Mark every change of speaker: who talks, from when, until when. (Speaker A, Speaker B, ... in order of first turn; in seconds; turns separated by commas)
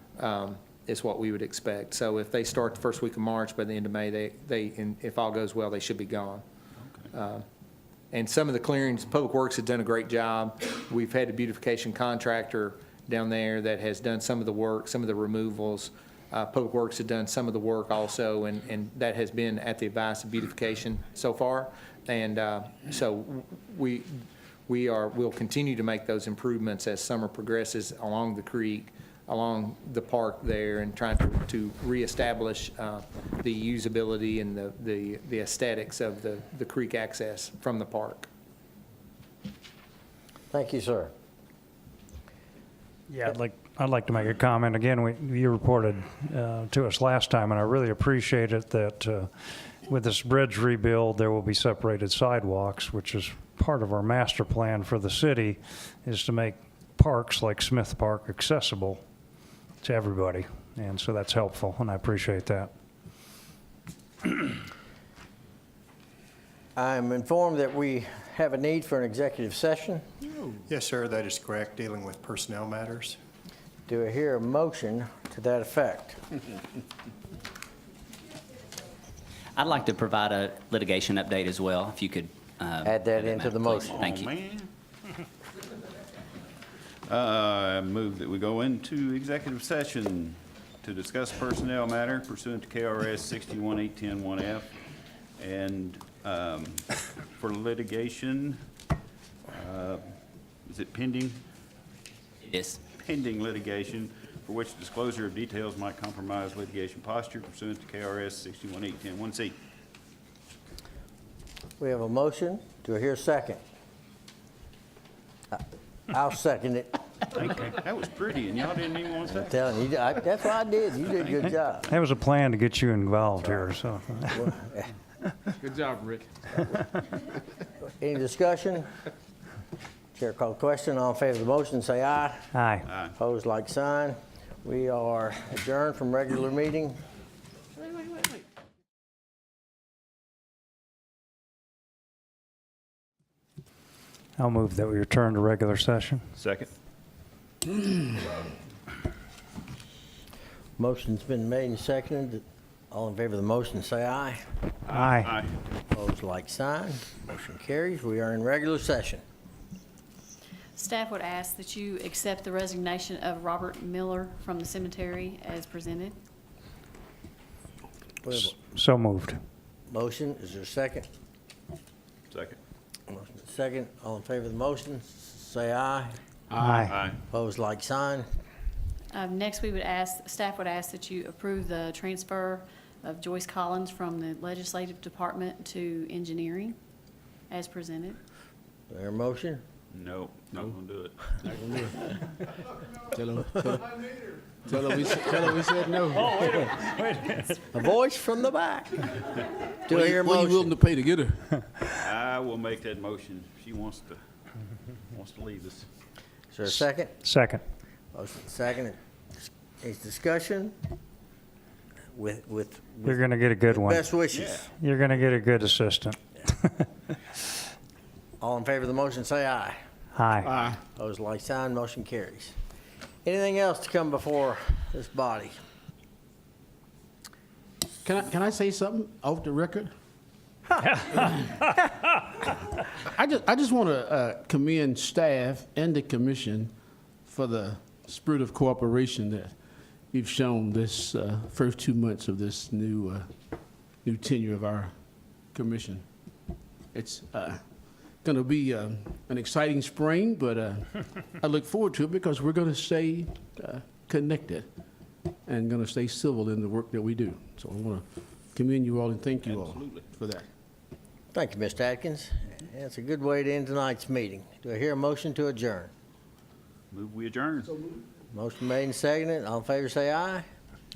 Speaker A: 0.2-6.4, Speaker A: 7.1-7.5, Speaker A: 8.1-38.3, Speaker B: 40.5-41.1, Speaker C: 43.1-49.3, Speaker C: 49.9-59.0, Speaker C: 59.8-62.7, Speaker B: 66.8-70.0, Speaker D: 70.7-73.2, Speaker B: 73.9-76.2, Speaker E: 79.5-84.3, Speaker B: 82.8-83.9, Speaker F: 83.7-84.7, Speaker F: 87.1-94.7, Speaker F: 95.4-96.9, Speaker F: 97.4-98.6, Speaker F: 99.5-100.0, Speaker F: 100.7-101.4, Speaker E: 102.5-102.8, Speaker F: 102.9-109.5, Speaker B: 111.8-113.6, Speaker B: 115.5-117.0, Speaker F: 117.4-119.6, Speaker B: 119.3-121.9, Speaker C: 121.9-124.5, Speaker B: 123.4-123.7, Speaker B: 124.4-124.9, Speaker G: 125.6-126.3, Speaker B: 128.0-128.9, Speaker B: 130.2-132.5, Speaker C: 132.5-132.9, Speaker F: 132.9-133.1, Speaker B: 133.2-137.0, Speaker C: 144.4-146.2, Speaker F: 146.4-146.7, Speaker B: 150.8-154.4, Speaker C: 154.9-155.3, Speaker F: 154.9-155.6, Speaker B: 155.9-159.2, Speaker H: 160.8-166.2, Speaker B: 168.2-168.6, Speaker C: 168.3-169.4, Speaker B: 169.9-171.1, Speaker F: 172.3-172.6, Speaker B: 173.1-176.2, Speaker G: 176.5-176.8, Speaker C: 176.6-177.0, Speaker F: 176.9-177.2, Speaker B: 177.3-178.3, Speaker H: 179.1-186.8, Speaker H: 187.5-188.2, Speaker B: 188.9-189.6, Speaker F: 189.9-191.4, Speaker G: 191.4-192.0, Speaker G: 193.1-194.0, Speaker G: 194.7-196.3, Speaker C: 196.2-197.6, Speaker B: 197.7-199.2, Speaker B: 199.9-200.7, Speaker G: 199.9-201.4, Speaker F: 201.9-204.2, Speaker F: 205.1-205.9, Speaker B: 206.5-207.1, Speaker C: 206.7-207.6, Speaker B: 208.1-210.7, Speaker B: 212.1-214.7, Speaker C: 213.1-214.1, Speaker F: 214.3-214.7, Speaker C: 214.8-216.8, Speaker B: 218.4-219.8, Speaker C: 220.2-220.5, Speaker G: 220.4-220.8, Speaker B: 220.8-222.6, Speaker B: 223.2-225.5, Speaker G: 228.0-229.9, Speaker C: 230.9-231.2, Speaker G: 233.1-236.7, Speaker G: 237.2-239.6, Speaker G: 240.1-243.3, Speaker G: 244.0-246.1, Speaker G: 246.9-254.7, Speaker G: 255.5-260.4, Speaker F: 259.4-260.1, Speaker B: 261.3-265.9, Speaker F: 266.9-267.8, Speaker B: 268.3-270.4